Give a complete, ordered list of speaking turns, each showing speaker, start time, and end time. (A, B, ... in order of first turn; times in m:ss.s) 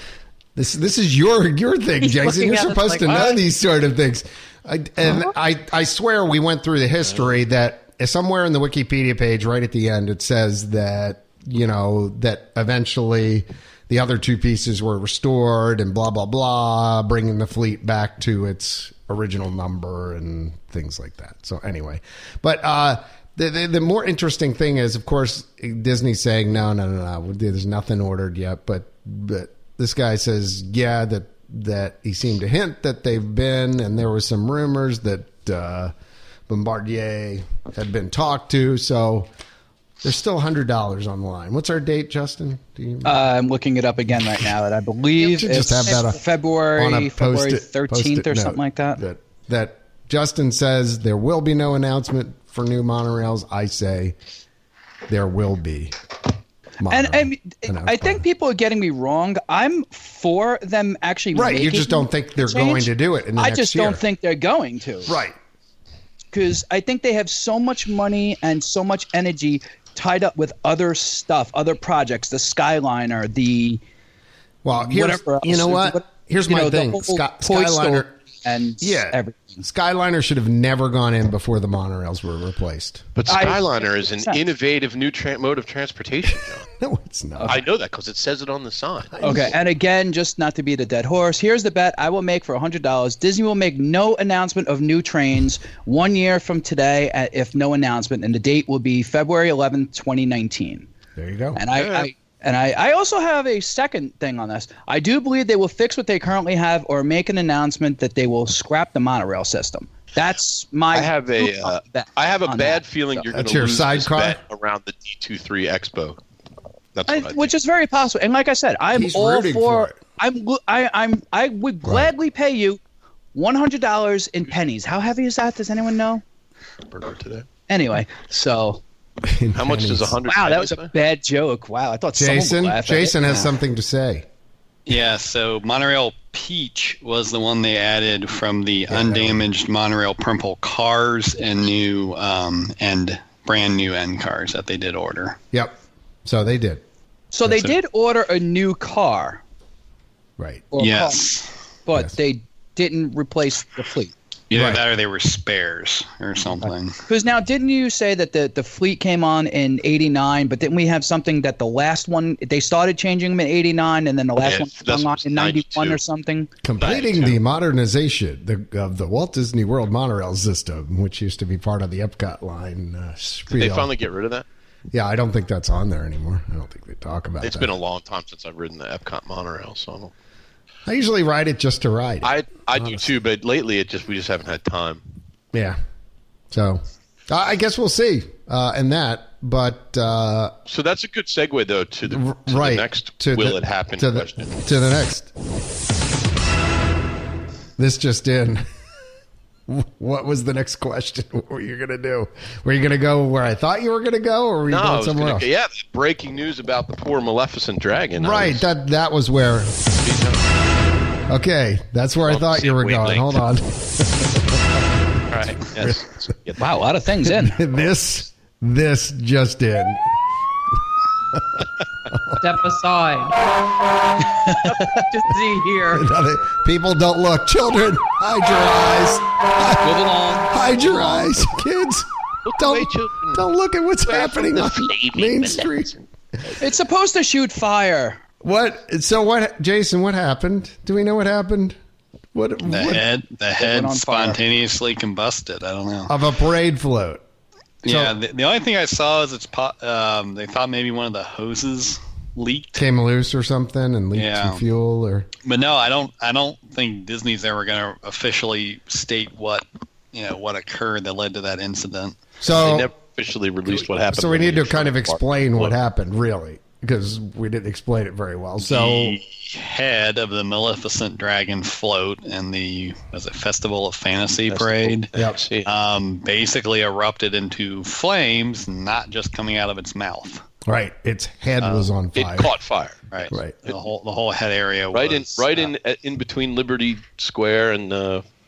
0:00.5-0:35.9 A
0:02.0-0:03.4 B
0:36.5-0:39.3 A
0:40.0-0:43.2 A
0:43.0-0:49.0 C
0:45.2-0:46.0 B
0:45.3-0:46.2 A
0:46.7-0:54.2 A
0:55.1-0:55.9 A
0:56.8-0:58.2 A
0:56.9-1:05.1 C
1:01.3-1:04.0 A
1:05.1-1:05.4 A
1:06.3-1:13.8 C
1:14.6-1:18.1 A
1:14.8-1:19.6 C
1:18.8-1:23.1 A
1:23.2-1:26.7 D
1:23.3-1:24.4 C
1:26.8-1:27.6 A
1:27.4-1:27.6 C
1:27.5-1:29.2 D
1:29.1-1:29.5 A
1:29.2-1:40.9 C
1:41.2-1:41.6 A
1:41.6-1:53.2 C
1:41.7-1:42.1 D
1:50.9-1:56.2 D
1:53.3-1:54.4 A
1:56.9-1:57.5 D
1:57.1-2:02.8 C
1:58.9-2:00.0 A
2:01.8-2:02.1 A
2:03.3-2:06.2 C
2:06.9-2:07.4 D
2:07.7-2:08.8 C
2:09.2-2:10.2 A
2:09.5-2:10.9 D
2:10.3-2:13.2 C
2:12.1-2:14.2 A
2:14.8-2:25.4 E
2:18.9-2:19.4 A
2:25.5-2:26.8 A
2:27.3-2:29.4 C
2:27.5-2:27.7 E
2:30.4-2:30.7 A
2:30.7-2:31.3 C
2:30.8-2:31.5 E
2:31.8-2:34.1 C
2:34.5-2:37.0 E
2:34.5-2:34.8 A
2:36.6-2:46.5 C
2:44.4-2:46.0 D
2:46.6-2:53.9 A
2:46.8-2:47.4 D
2:53.5-2:54.4 D
2:54.9-2:57.7 A
2:57.4-3:00.1 D
3:00.8-3:03.0 A
3:02.2-3:05.0 D
3:05.5-3:05.8 A
3:06.5-3:10.5 A
3:10.7-3:14.6 D
3:12.1-3:15.3 A
3:17.8-3:18.6 A
3:19.7-3:25.4 A
3:24.7-3:28.6 D
3:28.2-3:29.8 A
3:30.0-3:30.4 D
3:31.3-3:34.9 A
3:32.2-3:33.4 D
3:35.3-3:36.6 D
3:35.8-3:36.0 A
3:36.6-3:37.6 C
3:37.2-3:40.0 A
3:41.3-3:42.4 A
3:42.4-3:43.4 B
3:44.6-3:46.1 B
3:45.9-3:55.9 A
3:49.8-3:50.6 C
3:52.4-3:53.4 D
3:54.0-3:55.9 D
3:56.6-3:58.2 C
3:58.4-4:01.8 A
4:02.3-4:03.0 A
4:02.6-4:06.1 E
4:03.6-4:04.4 C
4:06.1-4:07.2 A
4:07.8-4:12.9 E
4:07.8-4:08.1 A
4:12.7-4:15.3 A
4:14.1-4:14.6 E
4:15.4-4:22.2 E
4:22.4-4:22.9 A
4:22.5-4:25.7 D
4:24.1-4:29.2 A
4:28.6-4:35.1 E
4:34.5-4:35.7 D
4:35.6-4:40.4 E
4:40.7-4:42.5 A
4:41.6-4:41.9 E
4:42.2-4:43.0 D
4:43.1-4:45.7 E
4:43.3-4:43.6 A
4:44.9-4:48.2 D